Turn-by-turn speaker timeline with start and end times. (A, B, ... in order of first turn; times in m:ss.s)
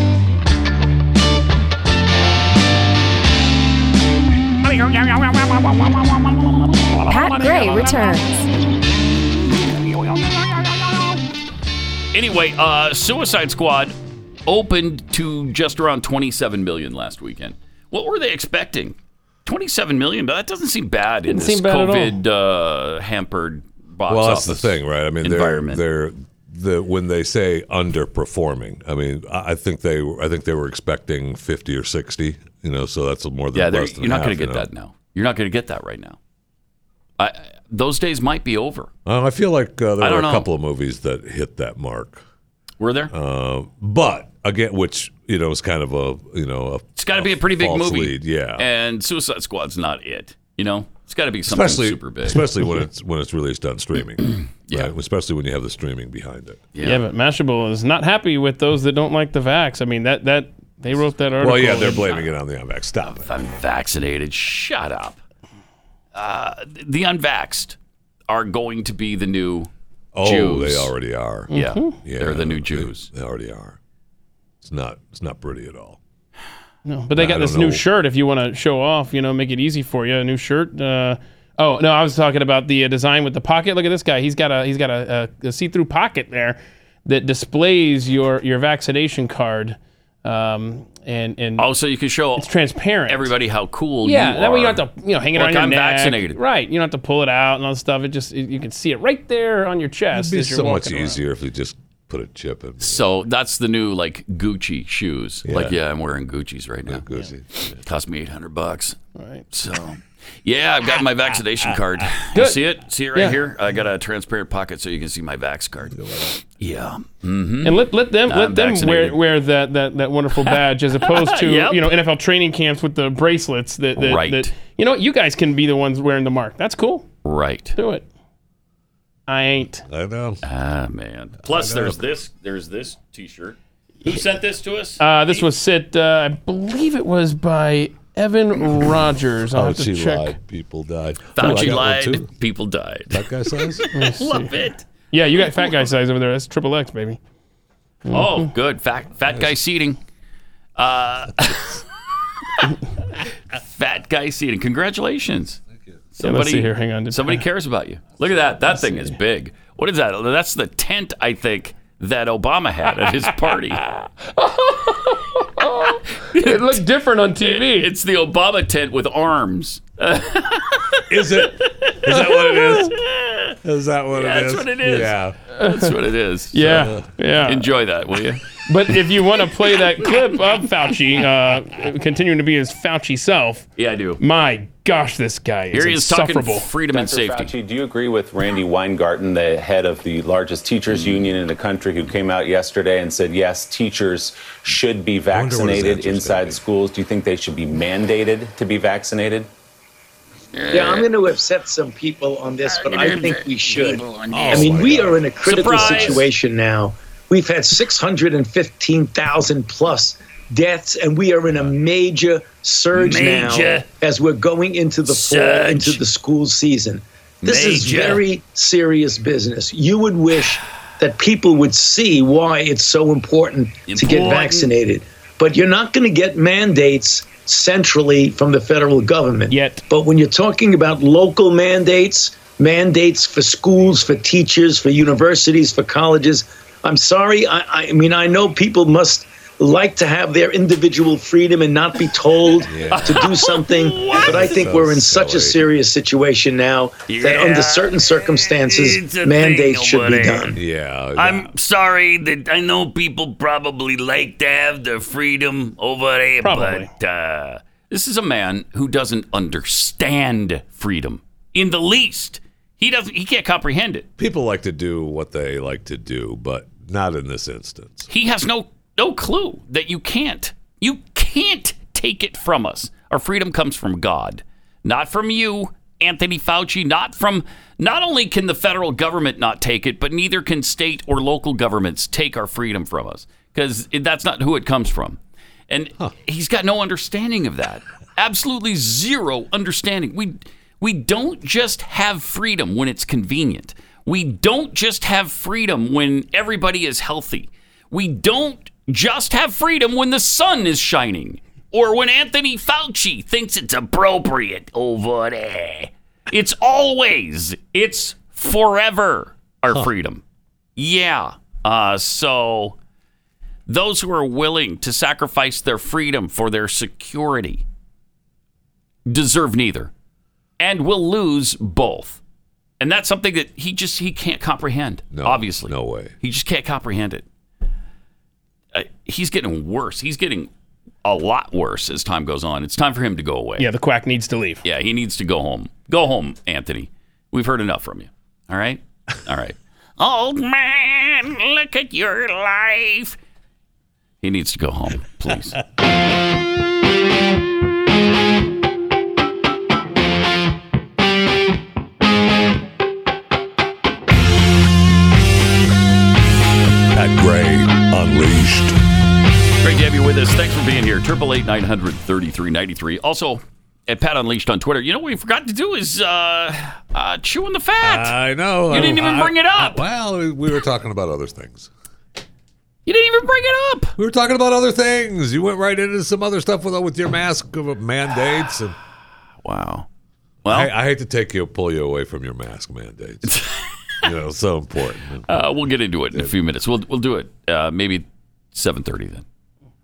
0:04.6-0:08.2 A
0:10.0-0:11.2 A
0:12.1-0:13.9 A
0:14.5-0:25.8 A
0:21.3-0:22.2 B
0:24.1-0:34.7 C
0:33.5-0:36.2 A
0:37.2-0:38.9 A
0:39.1-0:42.2 C
0:40.0-0:40.5 A
0:42.8-0:43.1 A
0:43.1-0:48.7 C
0:47.0-0:52.5 A
0:51.5-0:56.6 C
0:54.7-0:54.9 A
0:56.7-0:57.1 A
0:56.8-1:02.3 B
1:01.4-1:03.3 C
1:03.2-1:05.2 A
1:06.2-1:07.8 A
1:08.3-1:10.9 A
1:10.1-1:13.8 C
1:11.5-1:12.0 B
1:11.5-1:13.1 A
1:14.6-1:16.0 C
1:16.9-1:31.7 B
1:17.2-1:17.8 C
1:31.6-1:32.5 A
1:32.4-1:33.3 B
1:33.1-1:34.8 A
1:34.0-1:41.2 B
1:35.3-1:36.4 A
1:40.1-1:43.1 C
1:42.8-1:49.0 A
1:45.4-1:45.8 C
1:46.9-1:47.8 C
1:49.2-1:49.4 B
1:49.5-1:59.2 A
1:52.3-1:52.6 B
1:55.9-1:56.4 C
1:57.6-2:07.1 B
2:00.4-2:01.9 A
2:04.0-2:04.5 A
2:07.2-2:07.8 A
2:07.8-2:08.1 B
2:09.3-2:09.9 B
2:09.9-2:10.4 C
2:10.4-2:15.0 A
2:11.4-2:12.0 C
2:15.0-2:20.4 B
2:19.6-2:22.3 C
2:21.3-2:24.8 A
2:21.4-2:21.7 B
2:23.1-2:23.9 C
2:23.9-2:24.6 B
2:25.1-2:27.2 B
2:25.5-2:25.7 A
2:28.1-2:28.5 B
2:28.1-2:30.0 A
2:30.8-2:31.8 A
2:32.4-2:32.7 A
2:33.5-2:35.6 A
2:36.2-2:43.9 A
2:36.2-2:37.4 B
2:44.3-2:47.9 B
2:46.2-2:46.8 A
2:47.4-2:53.6 A
2:51.1-2:53.0 C
2:53.6-2:55.4 C
2:54.1-2:56.7 A
2:55.6-2:56.0 B
2:56.5-2:57.7 B
2:56.6-2:57.0 C
2:57.5-2:58.6 A
2:58.7-3:03.6 B
3:03.8-3:04.2 A
3:04.2-3:06.7 B
3:05.7-3:07.6 A
3:06.9-3:19.5 D
3:10.9-3:11.4 A
3:15.3-3:16.6 C
3:20.5-3:21.1 A
3:20.7-4:10.6 E
3:22.8-3:26.3 A
3:24.3-3:25.2 C
3:25.8-3:26.2 C
3:32.9-3:33.9 A
3:35.1-3:36.0 A
3:37.4-3:38.2 A
3:43.9-3:44.7 A
3:49.5-3:49.8 B
4:02.7-4:03.2 C
4:02.9-4:04.7 A
4:04.3-4:05.6 C
4:07.1-4:10.6 A
4:10.5-4:11.5 C
4:11.2-4:24.1 A
4:16.4-4:16.9 B
4:24.2-4:28.1 C
4:28.1-5:10.2 A
5:10.8-5:12.8 A
5:13.7-5:17.6 A
5:19.1-5:19.9 A
5:20.6-5:22.2 A
5:22.8-5:27.2 A
5:25.1-5:26.1 C
5:28.7-5:30.5 A
5:31.0-5:33.7 A
5:33.6-5:34.6 B
5:34.6-5:43.2 A
5:44.2-5:45.6 A
5:56.9-5:58.8 C
5:59.6-6:08.2 A
6:07.8-6:11.7 C
6:08.7-6:09.8 A
6:12.9-6:14.0 A
6:14.0-6:18.8 C
6:19.4-6:19.9 A
6:20.5-6:20.7 A
6:20.5-6:23.4 C
6:23.2-6:24.0 A
6:24.0-6:25.3 C
6:25.3-6:29.2 A